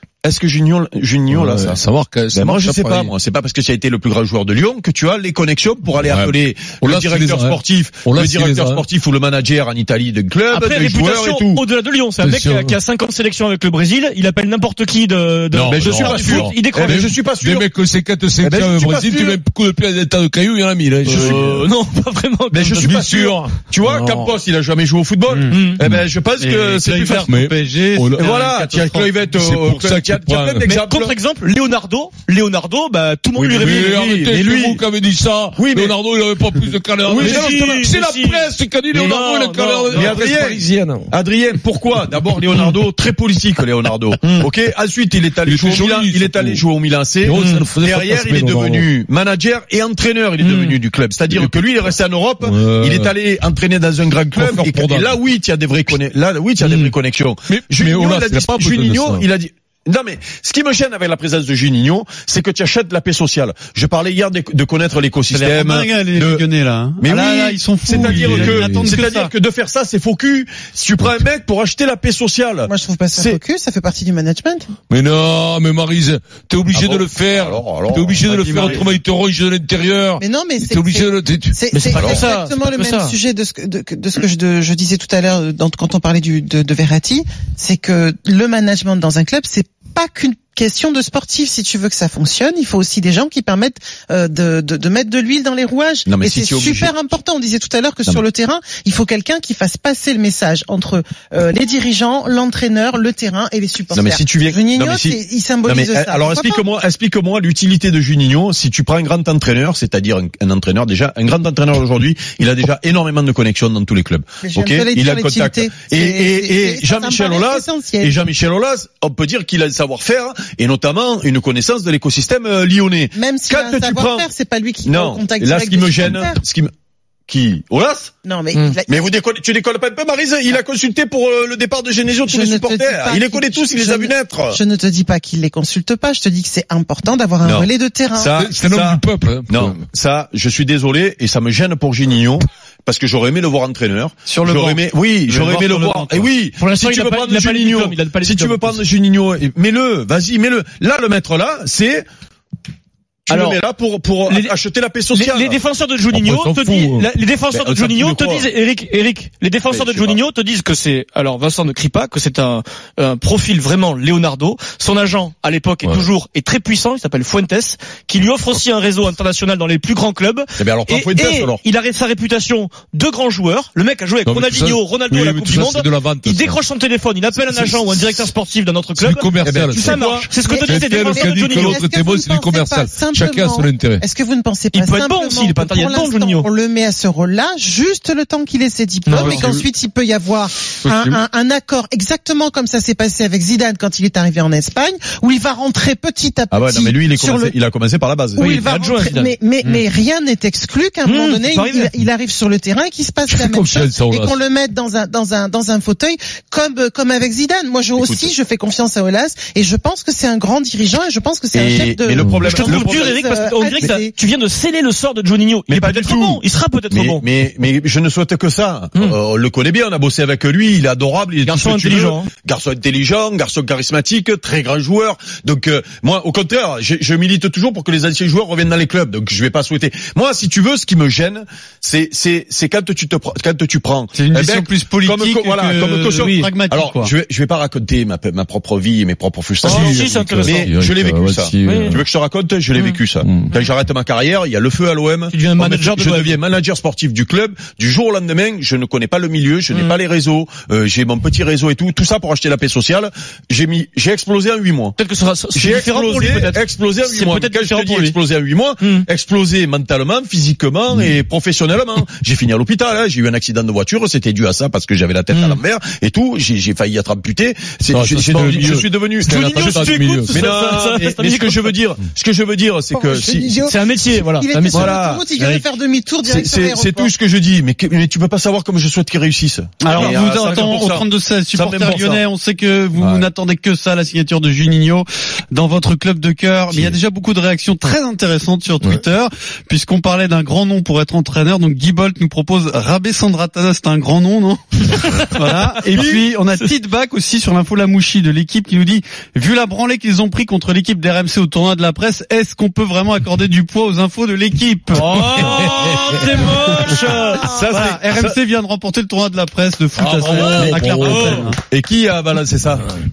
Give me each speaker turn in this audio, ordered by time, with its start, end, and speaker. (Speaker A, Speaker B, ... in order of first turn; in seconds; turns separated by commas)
Speaker A: 0.2-1.8, Speaker B: 1.3-3.1, Speaker A: 2.3-11.6, Speaker B: 6.0-8.8, Speaker C: 10.5-17.1, Speaker B: 12.2-12.8, Speaker A: 15.5-17.7, Speaker B: 15.6-21.7, Speaker A: 18.4-19.4, Speaker C: 21.1-22.9, Speaker A: 21.1-21.6, Speaker A: 22.5-27.3, Speaker B: 22.8-24.3, Speaker D: 25.3-25.6, Speaker C: 25.5-25.8, Speaker D: 26.4-29.1, Speaker B: 27.3-28.3, Speaker A: 28.1-31.1, Speaker B: 29.3-30.7, Speaker C: 30.6-34.0, Speaker A: 33.3-34.8, Speaker B: 33.6-41.1, Speaker A: 35.5-36.0, Speaker A: 37.0-37.9, Speaker C: 37.1-40.2, Speaker A: 39.9-66.4, Speaker B: 45.5-46.6, Speaker B: 47.2-48.9, Speaker C: 47.3-47.6, Speaker C: 50.4-50.8, Speaker B: 51.3-51.6, Speaker B: 52.4-53.1, Speaker B: 54.3-55.1, Speaker B: 57.5-59.2, Speaker D: 65.3-69.3, Speaker A: 67.0-73.4, Speaker B: 67.9-68.9, Speaker E: 72.7-74.7, Speaker B: 74.9-81.6, Speaker A: 76.7-78.8, Speaker D: 78.3-78.9, Speaker E: 80.2-106.6, Speaker C: 81.7-83.2, Speaker A: 81.9-82.3, Speaker A: 96.0-96.9, Speaker A: 103.9-124.3, Speaker E: 114.4-118.2, Speaker E: 123.1-126.4, Speaker A: 124.8-126.7, Speaker A: 127.3-128.1, Speaker E: 128.2-129.1, Speaker A: 128.9-134.6, Speaker E: 132.3-138.3, Speaker A: 137.4-152.1, Speaker B: 138.3-139.8, Speaker D: 144.2-146.3, Speaker C: 146.6-148.8, Speaker A: 153.3-155.6, Speaker C: 153.3-153.6, Speaker C: 154.2-154.5, Speaker C: 155.1-181.8, Speaker B: 156.1-157.1, Speaker A: 157.5-158.5, Speaker A: 159.7-160.2, Speaker A: 170.6-171.6, Speaker B: 174.2-176.6, Speaker A: 177.5-177.8, Speaker B: 177.8-178.3, Speaker B: 178.9-180.0, Speaker A: 179.4-180.3, Speaker E: 180.1-197.5, Speaker B: 180.6-184.0, Speaker C: 184.7-186.5, Speaker C: 189.1-189.7, Speaker A: 196.5-198.5, Speaker E: 198.3-214.1, Speaker C: 198.4-199.3, Speaker C: 201.0-201.9, Speaker B: 203.3-204.4, Speaker A: 208.0-208.3, Speaker A: 211.5-213.2, Speaker C: 212.4-217.2, Speaker A: 215.7-255.0, Speaker C: 221.4-222.3, Speaker D: 234.1-237.1, Speaker C: 239.6-240.7, Speaker B: 239.6-242.0, Speaker C: 241.6-242.0, Speaker C: 242.7-243.0, Speaker B: 243.2-243.5, Speaker C: 245.3-246.4, Speaker C: 249.7-250.0, Speaker C: 255.0-258.2, Speaker A: 255.5-273.6, Speaker C: 258.8-259.1, Speaker C: 265.3-265.6, Speaker B: 267.9-270.5, Speaker C: 269.2-271.7, Speaker E: 272.9-277.1, Speaker C: 273.6-275.6, Speaker A: 274.7-275.4, Speaker A: 276.2-282.2, Speaker D: 279.8-305.7, Speaker A: 283.0-283.3, Speaker C: 304.9-307.5, Speaker B: 305.3-307.0, Speaker D: 306.4-311.6, Speaker A: 307.4-308.3, Speaker B: 310.0-311.5, Speaker C: 310.2-311.4, Speaker A: 311.7-312.9